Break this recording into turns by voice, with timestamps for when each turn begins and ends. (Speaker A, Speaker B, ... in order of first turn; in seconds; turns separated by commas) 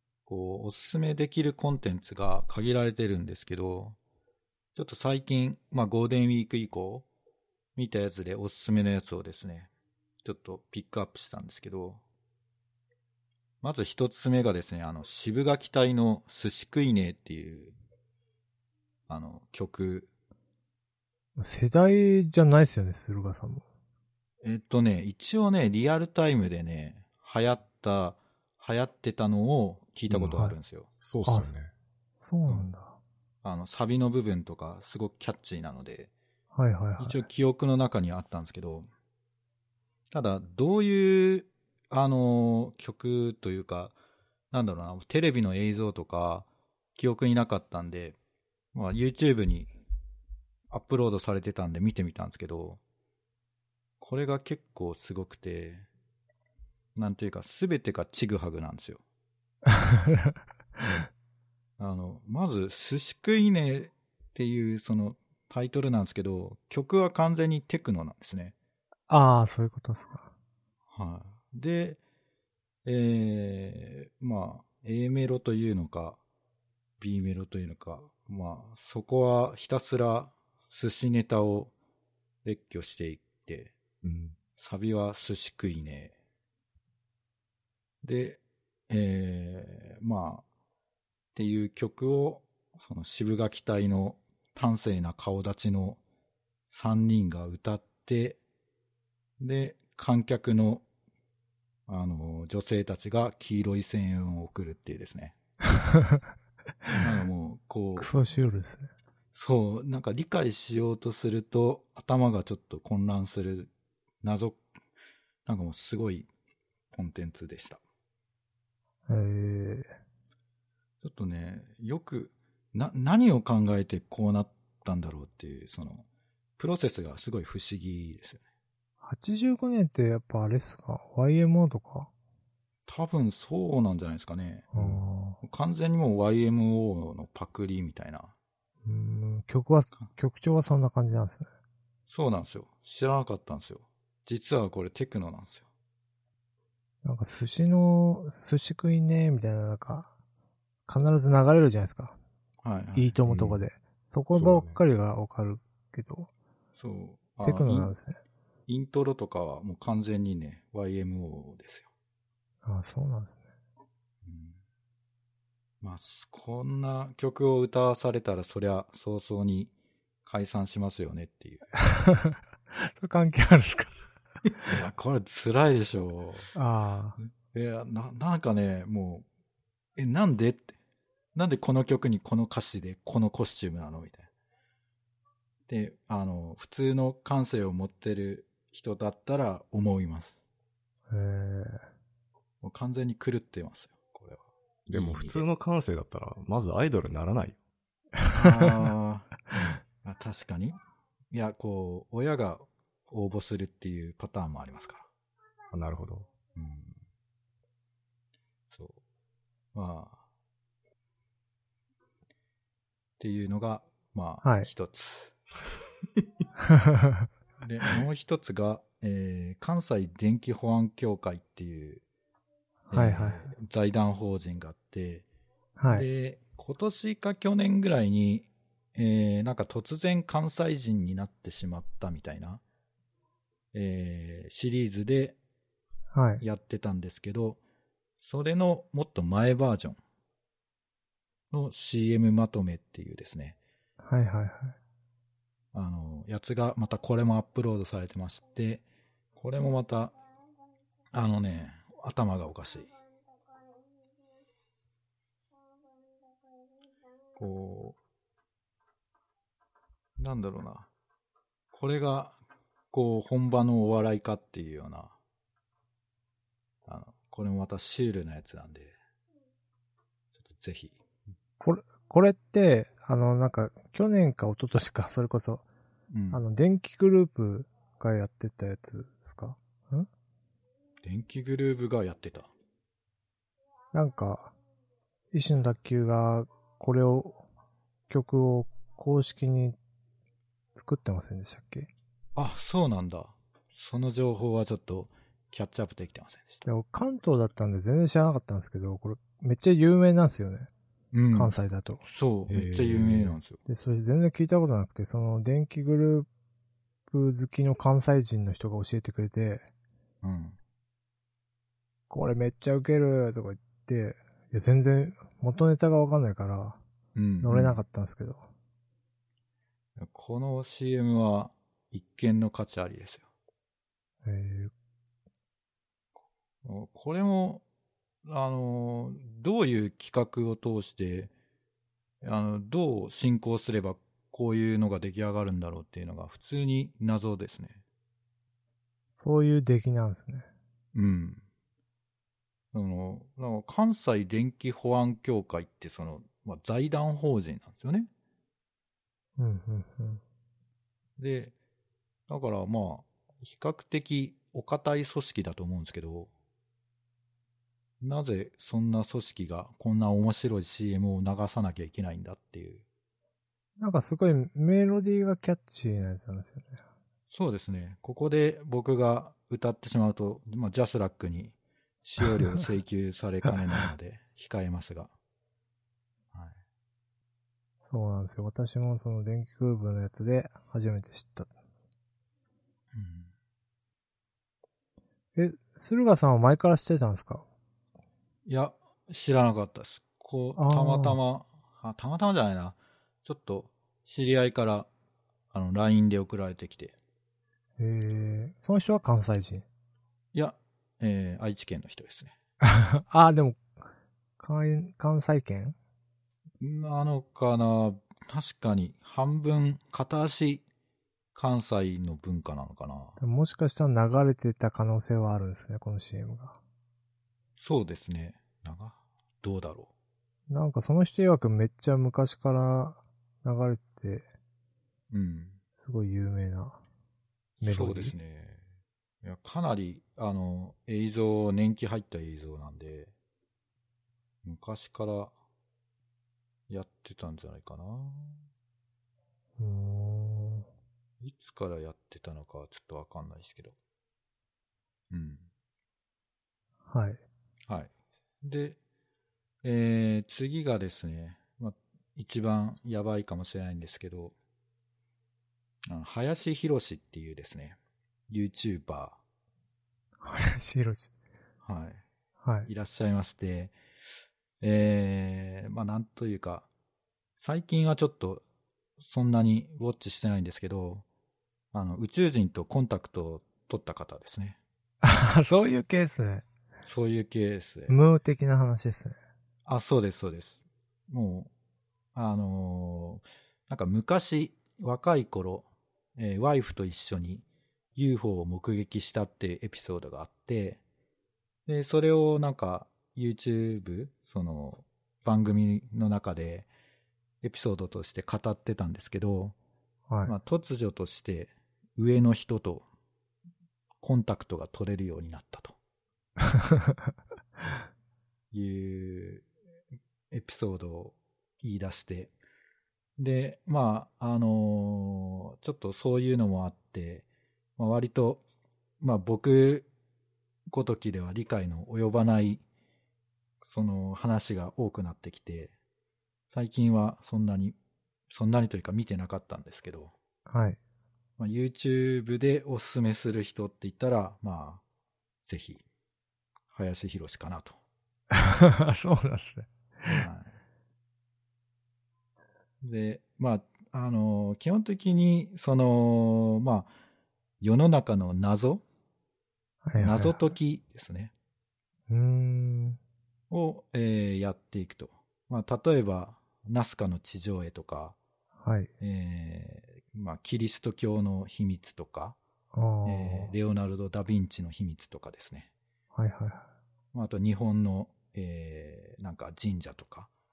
Speaker A: 0.3-4.0, Speaker A: 4.8-7.1, Speaker A: 7.8-9.7, Speaker A: 10.2-12.0, Speaker A: 13.6-17.8, Speaker A: 19.1-20.1, Speaker B: 21.4-23.6, Speaker A: 24.4-30.9, Speaker C: 30.1-30.5, Speaker C: 31.0-31.7, Speaker B: 31.3-31.5, Speaker B: 32.2-33.0, Speaker A: 33.4-36.1, Speaker B: 36.5-37.2, Speaker A: 37.0-38.9, Speaker A: 40.1-44.0, Speaker A: 44.5-48.2, Speaker A: 48.7-49.7, Speaker A: 50.7-52.8, Speaker A: 54.0-55.9, Speaker A: 57.0-59.0, Speaker B: 59.7-60.3, Speaker A: 61.8-68.5, Speaker B: 69.1-70.3, Speaker A: 70.9-72.0, Speaker A: 72.8-76.2, Speaker A: 77.0-81.7, Speaker A: 82.4-83.8, Speaker C: 84.0-84.4, Speaker A: 84.6-86.2, Speaker A: 88.0-90.5, Speaker A: 91.3-96.0, Speaker A: 96.7-98.4, Speaker A: 99.4-100.8, Speaker A: 101.9-105.3, Speaker B: 105.7-106.2, Speaker A: 107.0-108.1, Speaker B: 108.0-108.9, Speaker A: 109.3-113.7, Speaker A: 114.2-114.6, Speaker A: 115.5-116.3, Speaker A: 116.9-117.8, Speaker B: 119.1-119.9, Speaker A: 121.0-126.0, Speaker A: 126.6-128.4, Speaker B: 129.0-132.1, Speaker A: 132.9-134.8, Speaker B: 134.7-135.4, Speaker A: 135.4-138.3, Speaker B: 138.8-141.5, Speaker A: 142.1-145.7, Speaker B: 147.0-150.1, Speaker B: 150.9-152.2, Speaker A: 152.6-153.3, Speaker B: 152.9-156.3, Speaker C: 153.3-153.6, Speaker C: 154.3-154.8, Speaker A: 156.8-157.9, Speaker B: 157.4-158.2, Speaker A: 158.7-161.9, Speaker B: 162.6-163.4, Speaker A: 164.2-164.6, Speaker A: 165.8-169.7, Speaker A: 170.2-171.7, Speaker B: 171.8-173.9, Speaker A: 174.7-176.5, Speaker B: 176.6-177.2, Speaker A: 177.5-179.3, Speaker A: 180.0-180.8, Speaker A: 181.3-184.3, Speaker A: 185.7-190.4, Speaker B: 191.1-191.8, Speaker A: 192.6-195.4, Speaker C: 194.9-197.6, Speaker A: 198.3-200.8, Speaker A: 201.3-205.1, Speaker C: 205.7-206.3, Speaker A: 206.6-207.0, Speaker A: 208.7-209.0, Speaker A: 209.7-210.2, Speaker A: 213.2-215.3, Speaker B: 214.4-214.7, Speaker B: 216.7-217.3, Speaker A: 217.6-222.0, Speaker A: 222.9-225.2, Speaker B: 222.9-223.5, Speaker B: 225.8-226.1, Speaker A: 225.9-232.6, Speaker A: 233.7-235.4, Speaker B: 236.1-236.4, Speaker A: 236.4-237.6, Speaker A: 238.2-240.0, Speaker A: 241.5-243.6, Speaker B: 244.0-244.8, Speaker A: 245.7-248.8, Speaker A: 249.4-250.2, Speaker A: 251.1-252.9, Speaker A: 257.4-258.0, Speaker A: 260.2-260.9, Speaker A: 261.7-262.4, Speaker A: 262.9-265.1, Speaker A: 266.9-268.9, Speaker A: 270.5-270.9, Speaker B: 271.6-275.6, Speaker A: 276.1-276.4, Speaker B: 276.3-280.1, Speaker A: 281.0-282.5, Speaker B: 283.9-284.5, Speaker B: 285.3-287.4, Speaker B: 288.1-289.8, Speaker B: 290.8-291.9, Speaker A: 292.4-296.7, Speaker B: 296.6-300.7, Speaker A: 301.1-303.6, Speaker B: 301.3-302.0, Speaker C: 302.5-303.4, Speaker B: 303.7-306.3, Speaker B: 307.1-309.7, Speaker A: 310.2-310.6, Speaker B: 312.1-316.8, Speaker A: 317.1-317.8, Speaker B: 317.4-318.5, Speaker A: 320.0-323.2, Speaker B: 324.2-324.7, Speaker A: 326.6-327.6, Speaker A: 328.2-331.3, Speaker A: 332.2-337.8, Speaker B: 339.2-340.5, Speaker A: 340.9-341.4, Speaker A: 342.7-348.1, Speaker B: 349.4-350.2, Speaker A: 351.2-351.5, Speaker A: 352.3-356.3, Speaker A: 358.0-362.8, Speaker B: 363.8-366.8, Speaker A: 367.3-375.1, Speaker B: 377.9-381.5, Speaker A: 382.9-383.3, Speaker B: 385.4-387.4, Speaker A: 388.5-394.9, Speaker B: 390.6-391.2, Speaker A: 395.5-396.9, Speaker B: 397.8-399.7, Speaker A: 400.3-402.3, Speaker B: 402.6-403.7, Speaker B: 404.4-405.8, Speaker A: 406.6-410.6, Speaker A: 411.4-413.2, Speaker B: 413.2-416.6, Speaker A: 417.6-419.9, Speaker B: 420.5-424.2, Speaker A: 425.1-425.6, Speaker B: 425.8-426.8, Speaker A: 427.6-428.6, Speaker B: 427.6-428.1, Speaker A: 429.2-433.1, Speaker A: 434.4-435.3, Speaker A: 436.7-438.4, Speaker B: 439.6-440.7, Speaker A: 441.2-443.8, Speaker A: 445.1-445.5, Speaker B: 446.9-447.2, Speaker A: 448.4-448.8, Speaker A: 449.6-454.4, Speaker A: 455.9-457.8, Speaker A: 458.3-459.2, Speaker B: 460.2-461.1, Speaker A: 461.6-462.0, Speaker B: 462.4-462.7, Speaker A: 462.7-463.7, Speaker A: 464.6-466.7, Speaker A: 467.4-468.4, Speaker A: 469.0-471.1, Speaker A: 471.7-474.6, Speaker B: 475.0-476.4, Speaker A: 476.9-478.0, Speaker B: 477.9-479.2, Speaker A: 479.7-481.5, Speaker A: 482.1-485.7, Speaker A: 486.2-490.8, Speaker A: 491.7-496.7, Speaker A: 497.4-499.6, Speaker A: 500.2-502.9, Speaker A: 504.0-505.8, Speaker B: 506.6-506.9, Speaker A: 508.5-509.5, Speaker A: 510.3-512.3, Speaker A: 513.2-517.2, Speaker A: 517.8-518.4, Speaker A: 519.0-519.9, Speaker A: 520.7-522.6, Speaker A: 523.6-525.7, Speaker A: 526.5-527.8, Speaker A: 528.3-530.1, Speaker B: 530.5-530.8, Speaker A: 531.4-534.8, Speaker A: 535.5-535.8, Speaker A: 536.7-537.8, Speaker B: 538.3-540.2, Speaker A: 540.1-540.5, Speaker A: 542.8-546.9, Speaker A: 547.6-548.8, Speaker B: 549.8-550.4, Speaker A: 550.0-551.3, Speaker B: 552.1-553.0, Speaker A: 553.5-558.2, Speaker B: 558.6-558.9, Speaker A: 559.0-562.4, Speaker B: 562.7-563.5, Speaker A: 563.0-565.7, Speaker B: 566.1-566.7, Speaker A: 567.1-570.3